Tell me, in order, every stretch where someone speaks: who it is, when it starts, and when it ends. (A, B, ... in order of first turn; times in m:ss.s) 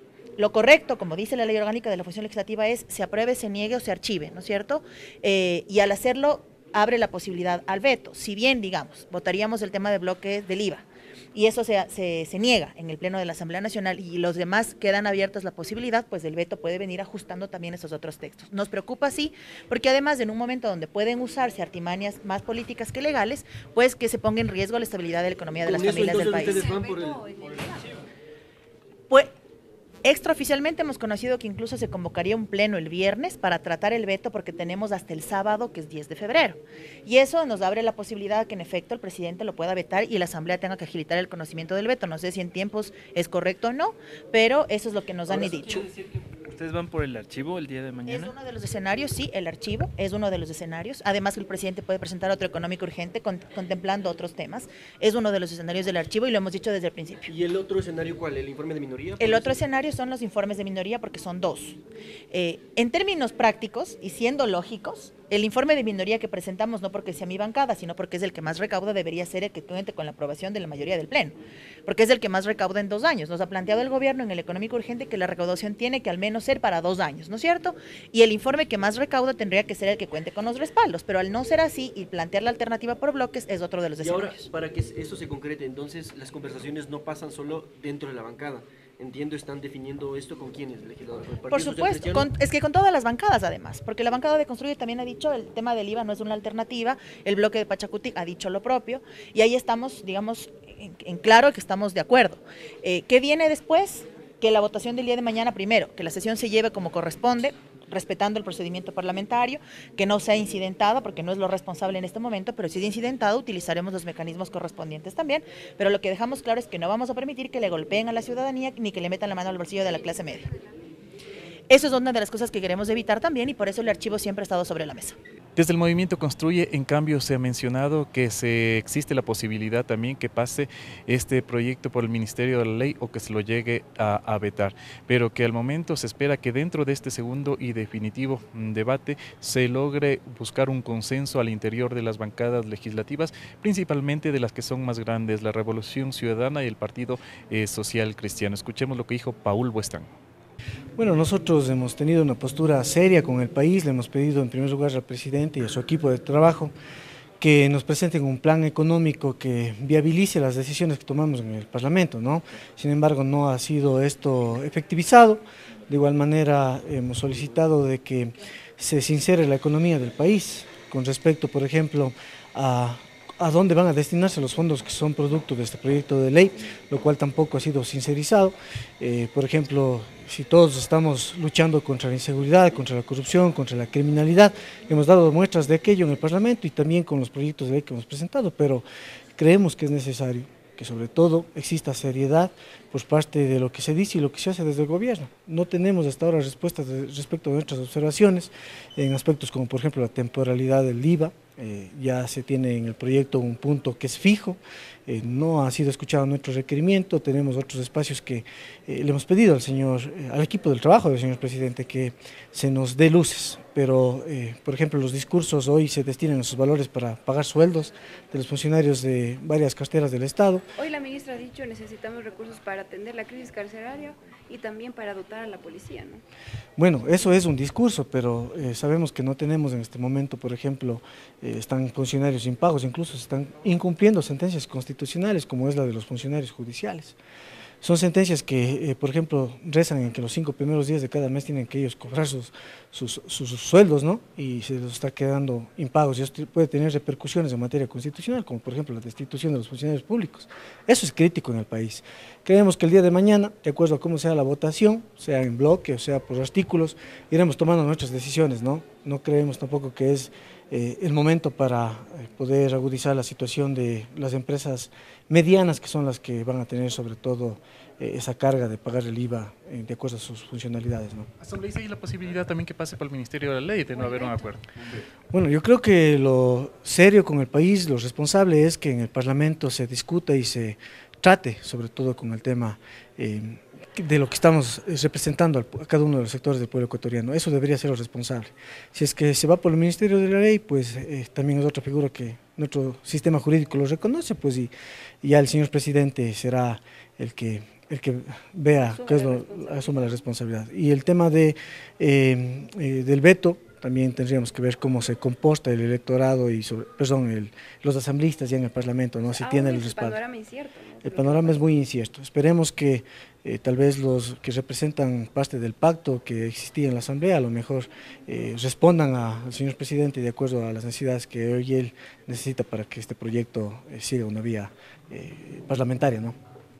0:00.4-0:26.7 A
0:25.6-0:27.3 B
0:26.1-0:28.0 C
0:30.0-0:45.9 A
0:45.3-0:48.3 D
0:48.0-0:57.3 A
0:57.2-0:59.6 B
0:59.2-1:01.8 A
1:02.3-1:24.5 A
1:24.0-1:32.3 B
1:31.5-2:00.5 A
2:01.7-2:05.2 A
2:05.6-2:30.1 E
2:31.0-2:36.7 F
2:37.4-3:08.8 F
3:09.4-3:40.6 F
3:40.8-3:46.2 C
3:46.8-3:57.2 F
3:57.8-4:31.3 F
4:31.4-4:34.8 E
4:34.0-4:34.4 C
4:35.3-4:54.7 F
4:55.2-5:10.2 F
4:58.8-5:00.1 C
5:09.3-5:11.6 C
5:11.0-5:26.3 F